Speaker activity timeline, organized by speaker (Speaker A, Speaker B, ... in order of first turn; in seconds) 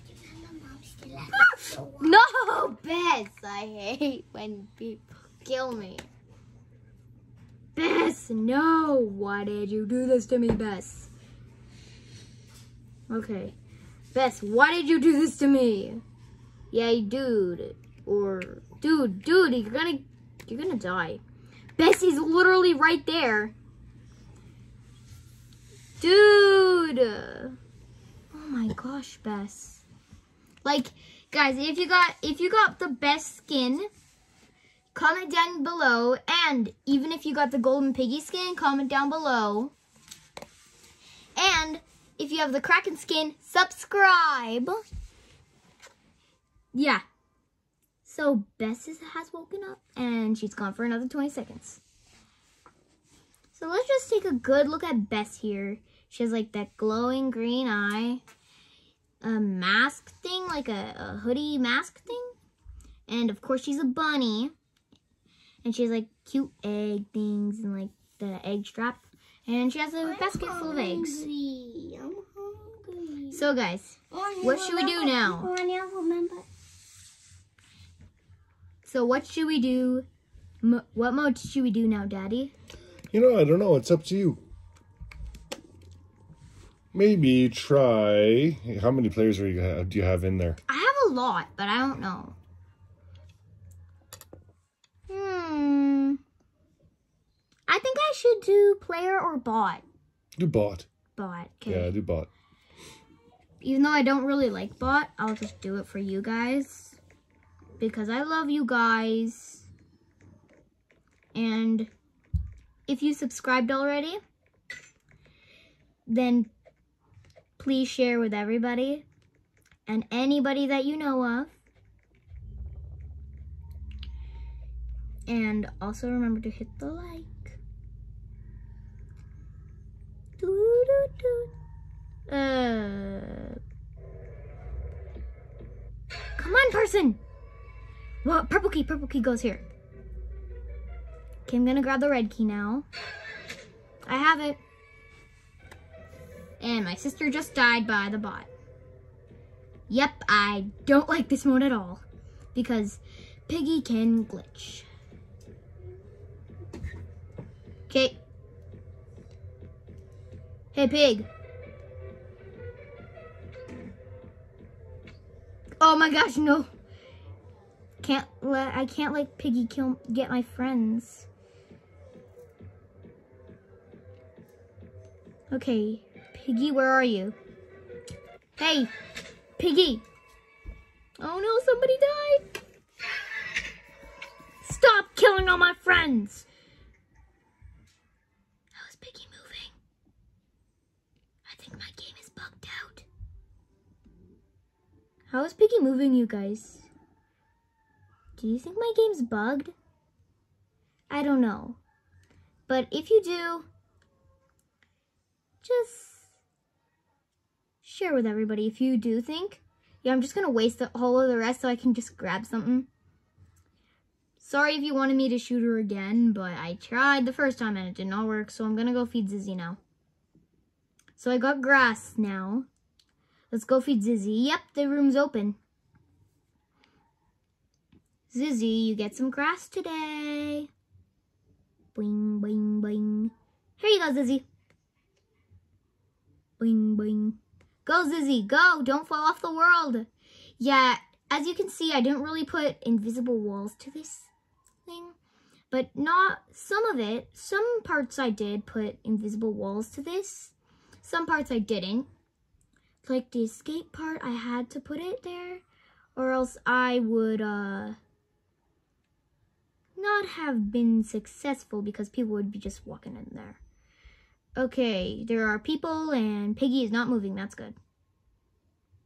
Speaker A: 0.1-2.1, 70.0-73.4, 74.1-76.5
Speaker B: 2.0-6.1, 7.8-11.1, 13.1-13.5, 14.1-16.0, 16.7-21.2, 21.8-23.5, 26.0-27.6, 28.3-29.8, 30.6-33.9, 34.9-39.7, 41.4-44.8, 46.7-47.0, 48.0-51.8, 53.5-58.2, 59.2-62.3, 63.1-64.5, 65.6-71.2, 73.3-75.5, 78.8-80.0, 80.6-82.5, 90.7-92.3, 95.1-96.2, 97.7-99.8, 101.2-101.9, 103.6-107.0, 107.8-109.7, 111.3-111.9, 112.9-114.2, 116.0-116.5, 117.6-119.0, 119.9-121.5, 125.3-127.6, 130.4-131.5, 132.3-133.6, 136.4-137.2, 138.2-139.6, 141.5-142.9, 144.1-144.6, 146.6-148.5, 149.9-152.0, 152.5-154.9, 157.9-158.2, 160.7-161.3, 165.8-166.7, 168.0-171.3, 175.5-177.3, 178.6-178.9, 179.6-180.0, 181.2-182.4, 184.6-186.5, 188.7-189.7, 191.4-193.1, 195.3-196.9, 198.3-199.7, 201.1-201.8, 202.7-203.7, 205.6-206.3, 207.8-212.9, 214.4-219.8, 221.2-222.7, 223.5-225.6, 228.3-230.7, 231.9-234.4, 236.6-240.1, 240.6-244.3, 244.8-245.2, 245.7-252.1, 253.0-255.6, 256.1-258.0, 260.0-263.6, 264.6-267.8
Speaker C: 83.1-84.4, 86.9-90.6, 100.4-100.9, 101.7-102.3